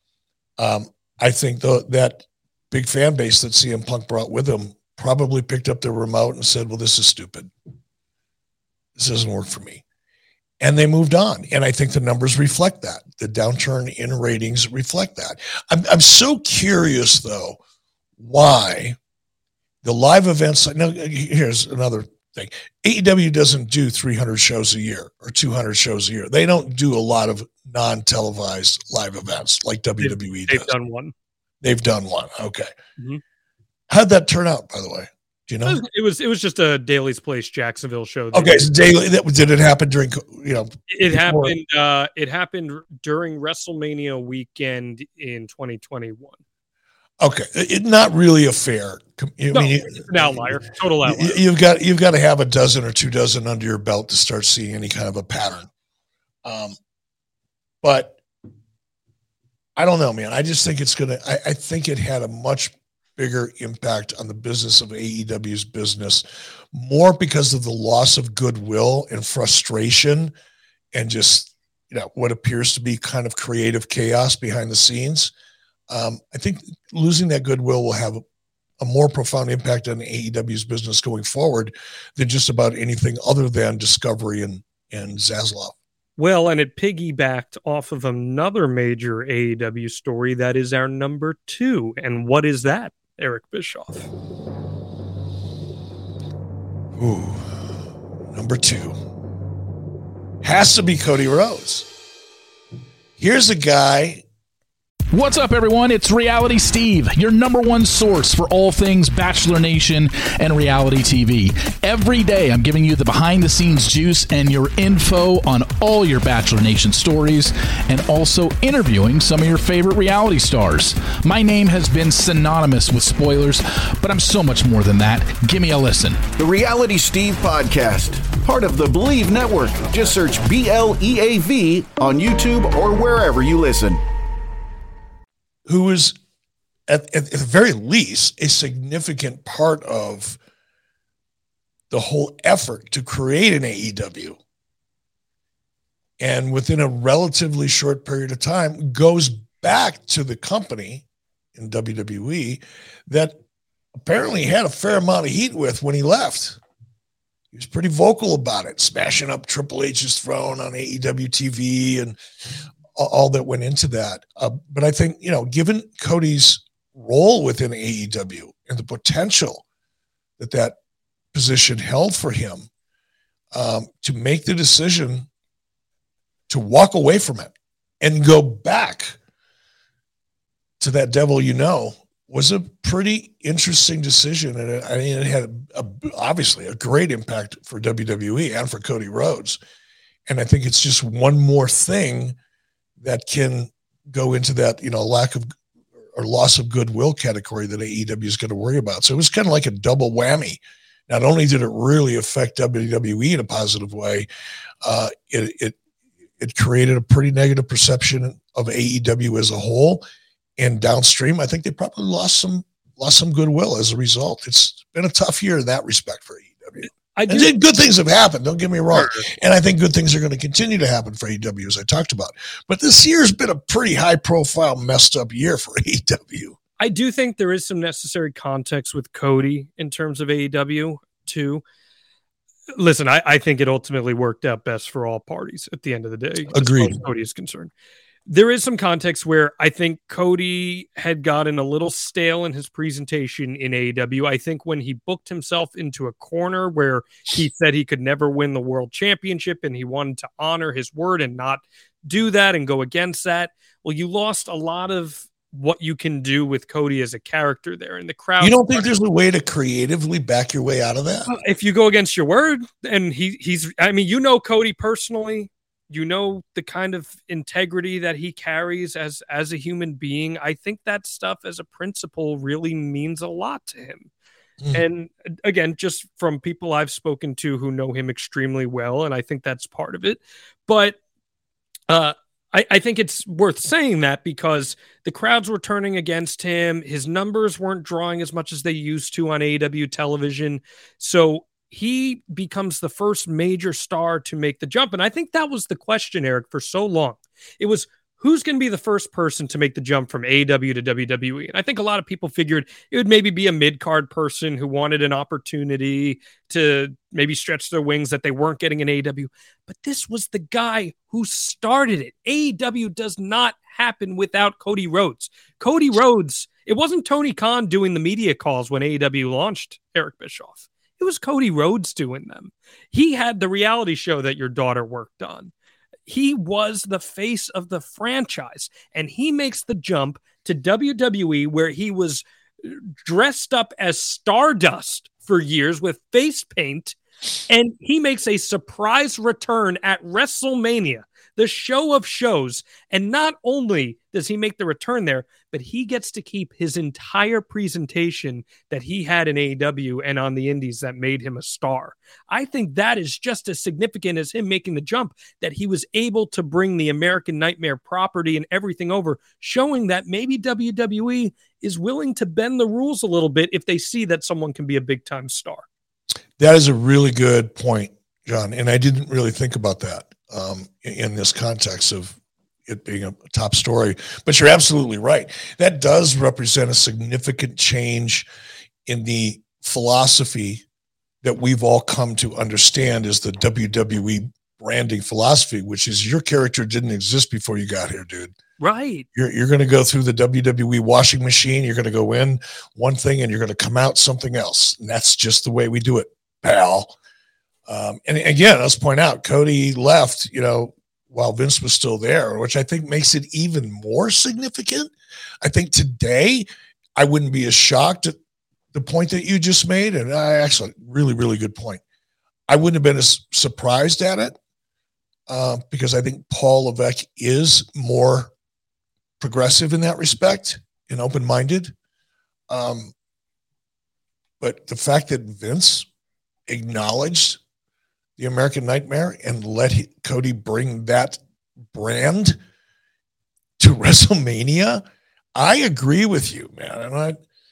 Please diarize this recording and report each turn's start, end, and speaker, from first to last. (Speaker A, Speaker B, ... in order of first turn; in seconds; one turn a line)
Speaker A: 0.6-7.5
Speaker A: 8.9-9.8
Speaker A: 10.6-17.6
Speaker A: 18.2-19.0
Speaker A: 19.8-30.7
Speaker B: 30.0-31.1
Speaker A: 31.6-32.7
Speaker A: 33.9-35.8
Speaker B: 35.6-38.7
Speaker A: 38.3-41.5
Speaker B: 40.9-46.4
Speaker A: 47.2-55.7
Speaker B: 49.5-51.4
Speaker A: 56.4-56.8
Speaker A: 57.8-58.2
Speaker A: 59.8-70.3
Speaker A: 70.9-75.3
Speaker A: 75.9-78.2
Speaker A: 78.8-85.8
Speaker B: 86.2-94.1
Speaker A: 96.9-97.8
Speaker A: 98.3-99.0
Speaker A: 100.4-101.9
Speaker A: 103.2-104.2
Speaker C: 105.1-126.2
Speaker D: 126.4-134.0
Speaker A: 135.7-136.1
Speaker A: 136.9-140.4
Speaker A: 141.9-144.4
Speaker A: 146.2-151.0
Speaker A: 151.6-153.4
Speaker A: 153.9-156.6
Speaker A: 157.5-162.2
Speaker A: 162.9-169.6
Speaker A: 170.4-170.8
Speaker A: 171.3-172.7
Speaker A: 173.5-175.3
Speaker A: 176.5-179.2
Speaker A: 180.8-189.6
Speaker A: 190.3-192.4
Speaker A: 193.0-195.5
Speaker A: 196.1-204.3
Speaker A: 204.8-205.8
Speaker A: 206.4-210.0
Speaker A: 210.6-226.6
Speaker B: 217.1-217.5
Speaker B: 218.9-219.2
Speaker B: 226.8-231.6
Speaker B: 232.7-237.7
Speaker A: 236.5-237.0
Speaker B: 238.3-258.9
Speaker A: 258.4-261.3
Speaker B: 261.3-274.1
Speaker B: 274.7-281.0
Speaker B: 281.9-325.5
Speaker B: 326.1-336.9
Speaker B: 337.5-365.6
Speaker A: 366.4-378.3
Speaker A: 378.9-380.6
Speaker A: 381.2-388.3
Speaker B: 388.6-389.1
Speaker A: 389.1-396.9
Speaker A: 397.7-404.9
Speaker A: 405.4-408.2
Speaker A: 408.7-411.8
Speaker A: 412.5-414.4
Speaker A: 415.3-418.3
Speaker A: 419.2-421.7
Speaker A: 422.5-422.9
Speaker A: 424.4-425.9
Speaker A: 426.5-427.4
Speaker A: 428.2-432.4
Speaker A: 433.6-434.8
Speaker A: 435.3-437.2